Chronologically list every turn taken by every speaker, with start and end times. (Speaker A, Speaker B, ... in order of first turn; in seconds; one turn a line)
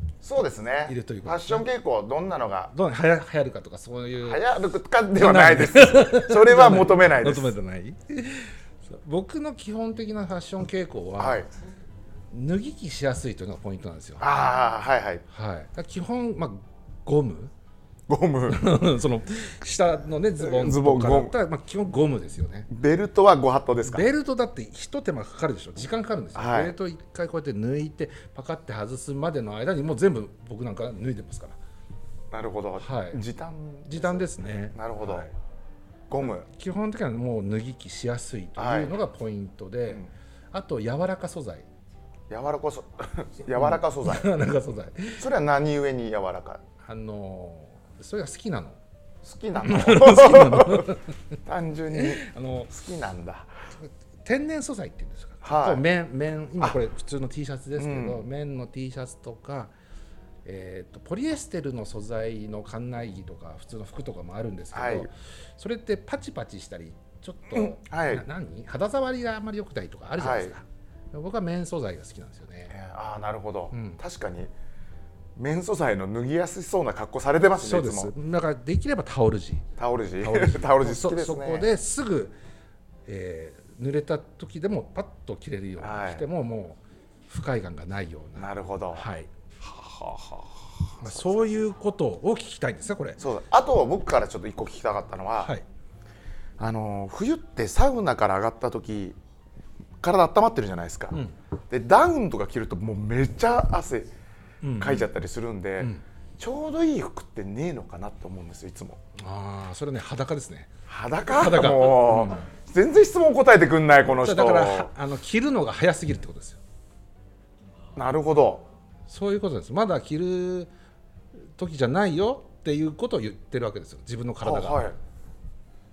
Speaker A: 0.2-2.7
Speaker B: 0.9-1.7
Speaker B: 2.7-4.4
Speaker A: 4.2-7.5
Speaker B: 5.2-11.4
Speaker A: 11.2-11.5
Speaker B: 12.3-14.2
Speaker A: 14.2-15.2
Speaker B: 15.3-17.5
Speaker A: 18.1-18.6
Speaker B: 18.5-22.7
Speaker A: 20.4-21.3
Speaker A: 22.7-24.1
Speaker B: 23.9-31.6
Speaker A: 26.4-26.7
Speaker A: 32.3-35.3
Speaker B: 32.8-33.2
Speaker B: 33.9-35.3
Speaker A: 36.1-36.5
Speaker B: 36.2-41.7
Speaker A: 38.6-39.0
Speaker A: 42.3-44.3
Speaker B: 43.5-45.2
Speaker A: 45.2-46.6
Speaker B: 46.8-48.8
Speaker A: 49.2-50.9
Speaker B: 49.6-51.0
Speaker A: 51.4-53.5
Speaker B: 51.9-52.7
Speaker B: 53.8-59.7
Speaker A: 55.4-55.9
Speaker A: 57.8-58.2
Speaker B: 60.4-72.7
Speaker A: 64.7-65.1
Speaker A: 67.5-68.2
Speaker A: 70.2-70.5
Speaker A: 72.7-74.5
Speaker B: 73.7-74.0
Speaker A: 75.4-78.1
Speaker B: 77.6-79.7
Speaker A: 79.8-81.7
Speaker B: 80.2-82.4
Speaker B: 83.1-89.3
Speaker A: 85.8-86.2
Speaker A: 88.4-89.1
Speaker A: 89.6-90.4
Speaker A: 91.0-91.6
Speaker B: 91.0-93.2
Speaker A: 93.2-95.5
Speaker A: 96.6-99.2
Speaker A: 100.0-101.2
Speaker A: 101.7-104.1
Speaker B: 104.6-105.1
Speaker A: 104.8-109.0
Speaker B: 109.2-112.4
Speaker A: 110.9-114.9
Speaker B: 114.2-116.6
Speaker A: 117.9-118.7
Speaker B: 119.1-120.7
Speaker B: 121.6-124.9
Speaker A: 124.4-125.0